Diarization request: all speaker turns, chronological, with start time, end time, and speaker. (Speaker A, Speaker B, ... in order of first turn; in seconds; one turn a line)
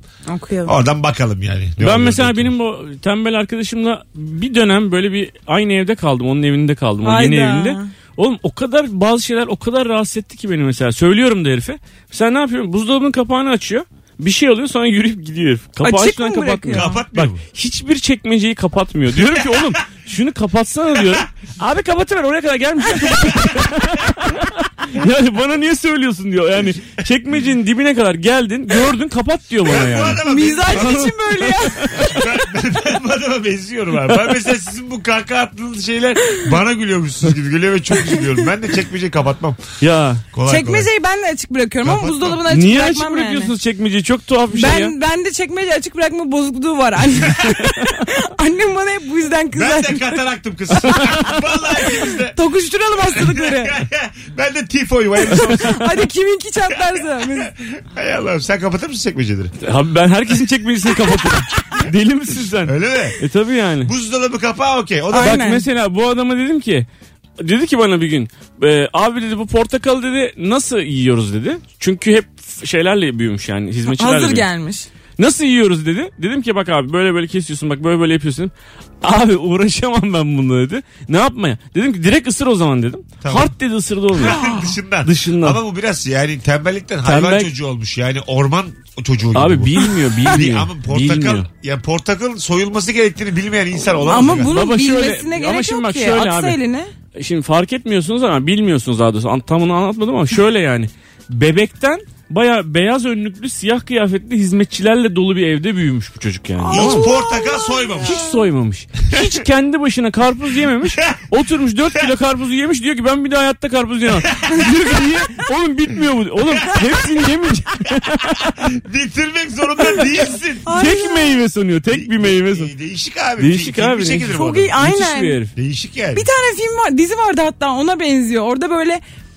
Speaker A: 0.3-0.8
Speaker B: 0.7-2.5
Speaker C: 1.8-32.1
Speaker A: 7.0-7.9
Speaker A: 15.8-17.0
Speaker B: 16.7-17.4
Speaker B: 19.3-19.7
Speaker B: 23.3-23.6
Speaker B: 29.6-31.1
Speaker A: 30.2-32.1
Speaker B: 31.9-39.6
Speaker C: 39.8-40.2
Speaker B: 40.3-40.9
Speaker A: 40.5-43.5
Speaker B: 41.8-42.4
Speaker C: 42.5-44.9
Speaker A: 44.5-50.2
Speaker B: 49.5-52.4
Speaker A: 52.0-53.7
Speaker B: 53.1-55.9
Speaker A: 55.2-57.5
Speaker B: 56.7-59.5
Speaker C: 59.6-63.9
Speaker B: 62.6-63.2
Speaker B: 63.8-65.4
Speaker A: 65.1-65.6
Speaker C: 65.2-66.9
Speaker C: 67.4-74.5
Speaker A: 73.9-74.9
Speaker C: 75.2-84.4
Speaker B: 83.2-83.5
Speaker B: 84.2-94.5
Speaker A: 84.3-84.7
Speaker C: 85.0-85.6
Speaker C: 87.0-87.5
Speaker C: 89.3-91.5
Speaker A: 94.1-96.9
Speaker C: 94.4-96.6
Speaker C: 97.2-107.1
Speaker A: 106.6-108.3
Speaker B: 106.7-108.2
Speaker C: 108.0-118.5
Speaker B: 110.8-111.2
Speaker B: 114.2-114.8
Speaker B: 116.5-116.9
Speaker B: 118.4-120.7
Speaker A: 120.7-121.4
Speaker C: 120.7-122.7
Speaker B: 121.9-124.7
Speaker C: 123.4-125.5
Speaker A: 124.3-125.4
Speaker B: 125.5-126.3
Speaker A: 126.2-129.0